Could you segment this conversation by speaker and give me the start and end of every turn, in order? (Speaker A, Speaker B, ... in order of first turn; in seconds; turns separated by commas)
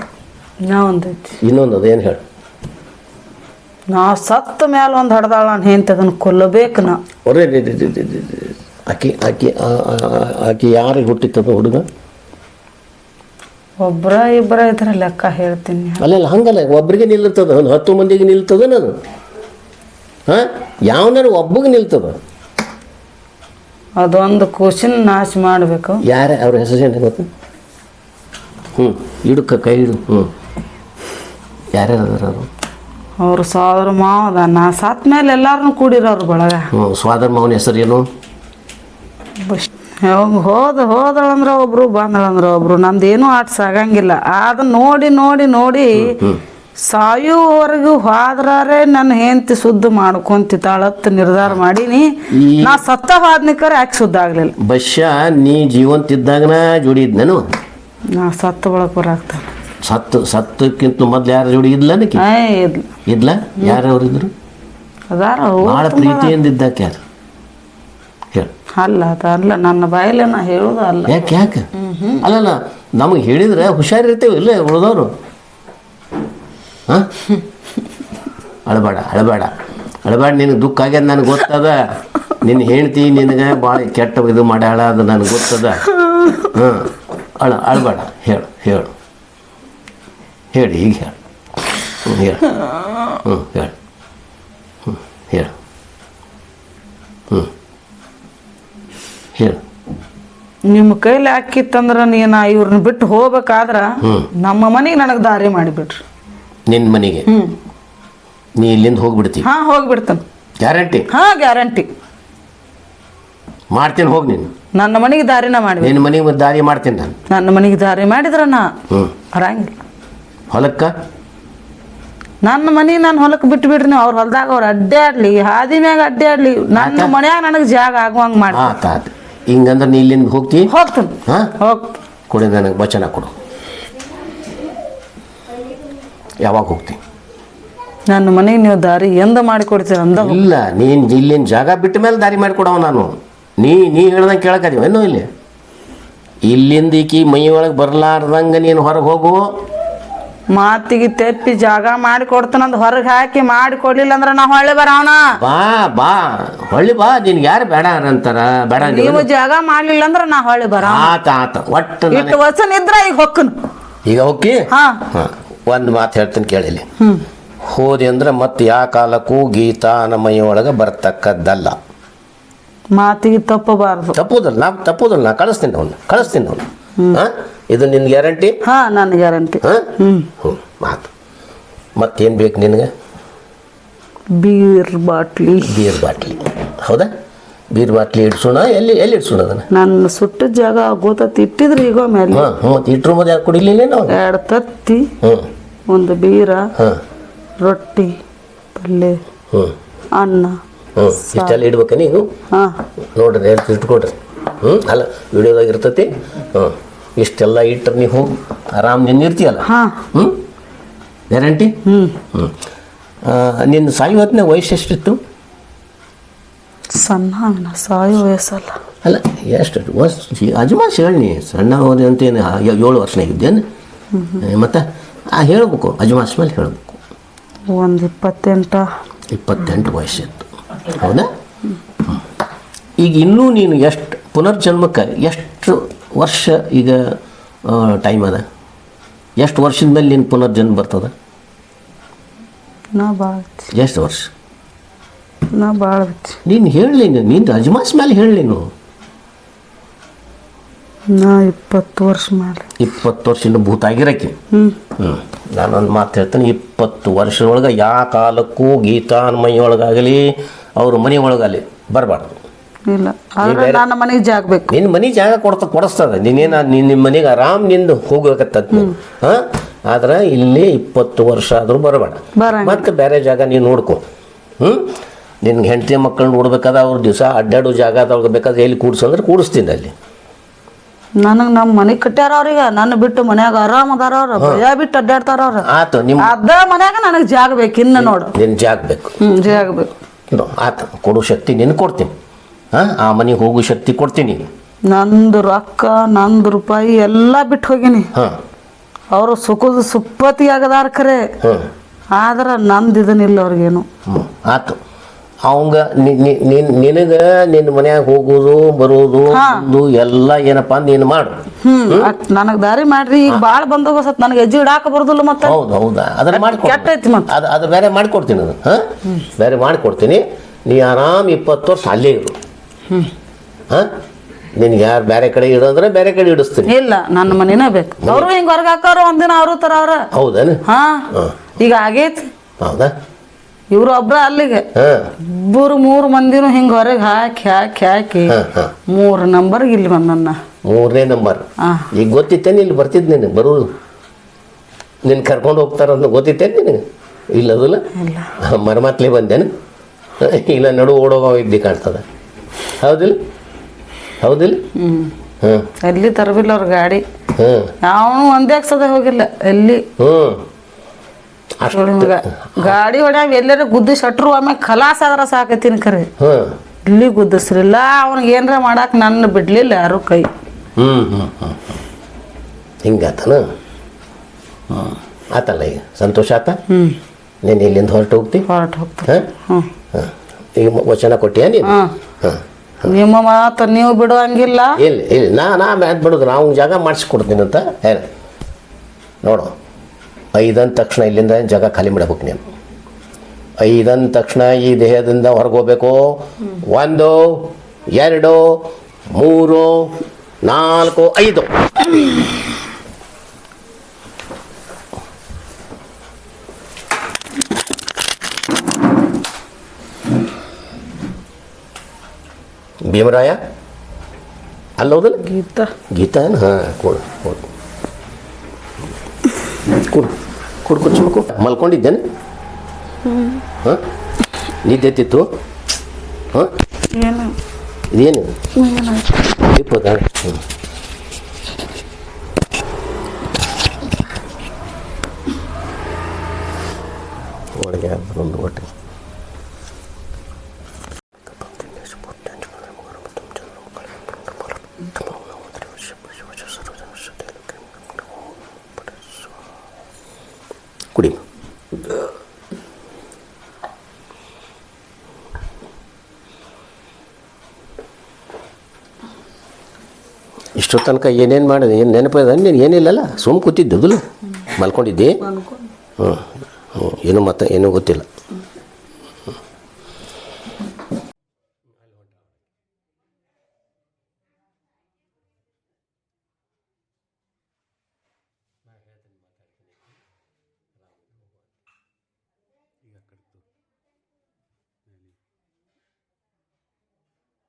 Speaker A: 0.7-1.4, Speaker B: 1.4-2.2, Speaker A: 3.9-7.0, Speaker B: 7.2-11.8, Speaker A: 13.8-16.0, Speaker B: 16.0-18.9, Speaker B: 20.3-22.2, Speaker A: 24.0-26.0, Speaker B: 26.1-27.3, Speaker B: 28.7-30.3, Speaker B: 31.7-32.5, Speaker A: 33.2-36.7, Speaker B: 36.7-38.1, Speaker A: 39.4-46.2, Speaker B: 46.0-46.4, Speaker A: 46.8-54.5, Speaker B: 52.3-52.8, Speaker B: 54.6-57.4, Speaker A: 58.1-59.5, Speaker B: 59.8-62.2, Speaker A: 62.2-62.9, Speaker B: 63.0-64.3, Speaker A: 65.1-66.4, Speaker B: 65.6-67.0, Speaker A: 68.8-71.2, Speaker B: 71.1-71.7, Speaker A: 71.7-72.2, Speaker B: 72.2-75.1, Speaker B: 78.7-79.5, Speaker B: 80.0-81.8, Speaker B: 82.4-85.8, Speaker B: 86.4-88.9, Speaker B: 90.5-91.2, Speaker B: 92.0-92.4, Speaker B: 93.2-93.7, Speaker B: 94.8-95.5, Speaker A: 100.7-106.0, Speaker B: 104.0-104.3, Speaker B: 106.7-107.3, Speaker A: 107.3-107.5, Speaker B: 108.6-109.5, Speaker A: 109.4-110.2, Speaker B: 110.6-111.1, Speaker A: 111.1-111.9, Speaker B: 113.7-114.5, Speaker A: 114.7-116.0, Speaker B: 115.8-117.2, Speaker A: 117.3-118.7, Speaker A: 119.3-119.7, Speaker B: 120.5-120.9, Speaker A: 122.4-128.8, Speaker B: 126.7-127.1, Speaker B: 128.5-130.7, Speaker A: 130.7-132.0, Speaker B: 132.3-133.3, Speaker B: 136.4-137.0, Speaker A: 138.1-140.4, Speaker B: 140.2-145.3, Speaker B: 146.4-149.4, Speaker A: 150.5-155.4, Speaker B: 155.4-159.2, Speaker A: 158.8-161.1, Speaker B: 160.8-162.4, Speaker A: 162.1-163.5, Speaker B: 164.1-166.8, Speaker A: 164.7-165.0, Speaker A: 167.0-167.2, Speaker B: 167.6-171.8, Speaker A: 172.9-174.2, Speaker B: 174.1-178.6, Speaker A: 178.6-180.3, Speaker B: 179.6-179.9, Speaker B: 180.4-181.1, Speaker B: 182.0-182.9, Speaker A: 184.4-186.0, Speaker B: 185.6-187.1, Speaker B: 187.7-189.7, Speaker A: 189.7-192.5, Speaker B: 192.3-194.1, Speaker A: 194.1-195.1, Speaker B: 195.2-195.5, Speaker A: 195.9-196.7, Speaker A: 197.6-198.1, Speaker A: 198.7-199.2, Speaker A: 200.1-200.6, Speaker B: 200.9-202.3, Speaker A: 201.2-201.6, Speaker A: 202.5-202.8, Speaker B: 203.1-210.4, Speaker A: 209.6-210.0, Speaker B: 211.3-211.7, Speaker A: 211.8-212.2, Speaker B: 213.2-215.2, Speaker A: 216.9-218.8, Speaker B: 219.0-223.6, Speaker A: 224.1-224.4, Speaker B: 224.4-227.0, Speaker A: 227.7-228.8, Speaker B: 229.3-231.3, Speaker B: 233.0-237.0, Speaker B: 237.6-238.4, Speaker B: 239.4-241.1, Speaker A: 242.9-243.7, Speaker B: 243.7-244.3, Speaker A: 245.5-246.4, Speaker B: 246.4-248.7, Speaker A: 251.1-252.7, Speaker B: 252.8-254.3, Speaker A: 254.5-254.8, Speaker B: 255.0-262.4, Speaker A: 262.9-264.7, Speaker B: 263.4-263.8, Speaker B: 264.7-274.0, Speaker A: 272.4-272.9, Speaker B: 274.6-274.9, Speaker B: 275.4-279.9, Speaker A: 281.2-285.6, Speaker B: 284.4-284.6, Speaker B: 285.6-286.3, Speaker A: 286.2-288.3, Speaker B: 287.9-289.2, Speaker A: 289.2-289.9, Speaker B: 290.3-292.1, Speaker B: 292.7-294.5, Speaker A: 294.9-298.1, Speaker A: 299.1-301.2, Speaker B: 301.4-301.7, Speaker A: 302.1-303.9, Speaker B: 304.1-304.8, Speaker B: 305.4-312.1, Speaker A: 309.3-309.7, Speaker A: 311.6-315.6, Speaker B: 315.4-322.4, Speaker A: 316.3-317.3, Speaker B: 324.5-326.7, Speaker A: 326.7-330.1, Speaker B: 328.0-328.3, Speaker B: 330.1-330.6, Speaker A: 330.6-332.3, Speaker B: 332.6-332.9, Speaker A: 333.7-334.7, Speaker B: 334.7-335.1, Speaker A: 335.2-338.4, Speaker B: 338.3-338.7, Speaker A: 338.9-340.4, Speaker B: 340.6-343.7, Speaker A: 341.6-341.9, Speaker B: 345.0-347.9, Speaker A: 347.9-348.3, Speaker B: 348.4-349.5, Speaker B: 350.2-352.0, Speaker B: 352.8-353.1, Speaker B: 354.2-354.6, Speaker A: 354.8-355.1, Speaker B: 355.4-355.7, Speaker A: 355.8-357.0, Speaker B: 357.3-357.7, Speaker A: 357.8-359.8, Speaker B: 360.0-360.4, Speaker B: 361.6-362.7, Speaker A: 361.7-366.1, Speaker B: 366.2-366.5, Speaker A: 366.9-370.3, Speaker B: 370.8-371.8, Speaker B: 372.8-373.4, Speaker B: 374.7-376.6, Speaker A: 376.7-377.0, Speaker B: 377.4-378.4, Speaker A: 378.5-379.7, Speaker B: 379.9-382.4, Speaker A: 381.6-381.9, Speaker A: 382.8-384.8, Speaker B: 384.8-388.1, Speaker B: 389.2-389.5, Speaker B: 390.3-392.4, Speaker B: 393.6-398.6, Speaker B: 399.1-399.9, Speaker B: 400.4-401.5, Speaker B: 412.9-413.4, Speaker B: 414.8-415.2, Speaker A: 415.2-415.7, Speaker B: 415.9-417.5, Speaker B: 419.8-420.1, Speaker B: 420.6-422.0, Speaker A: 423.0-423.4, Speaker B: 424.6-425.2, Speaker A: 426.9-427.3, Speaker B: 427.9-428.3, Speaker A: 428.5-429.3, Speaker B: 429.4-430.4, Speaker B: 437.5-438.7, Speaker B: 441.3-447.9, Speaker B: 448.8-449.3, Speaker B: 450.9-451.2, Speaker B: 460.6-465.2, Speaker A: 465.2-465.7, Speaker B: 466.0-468.1, Speaker B: 471.8-472.3, Speaker B: 478.7-479.9, Speaker B: 480.9-481.3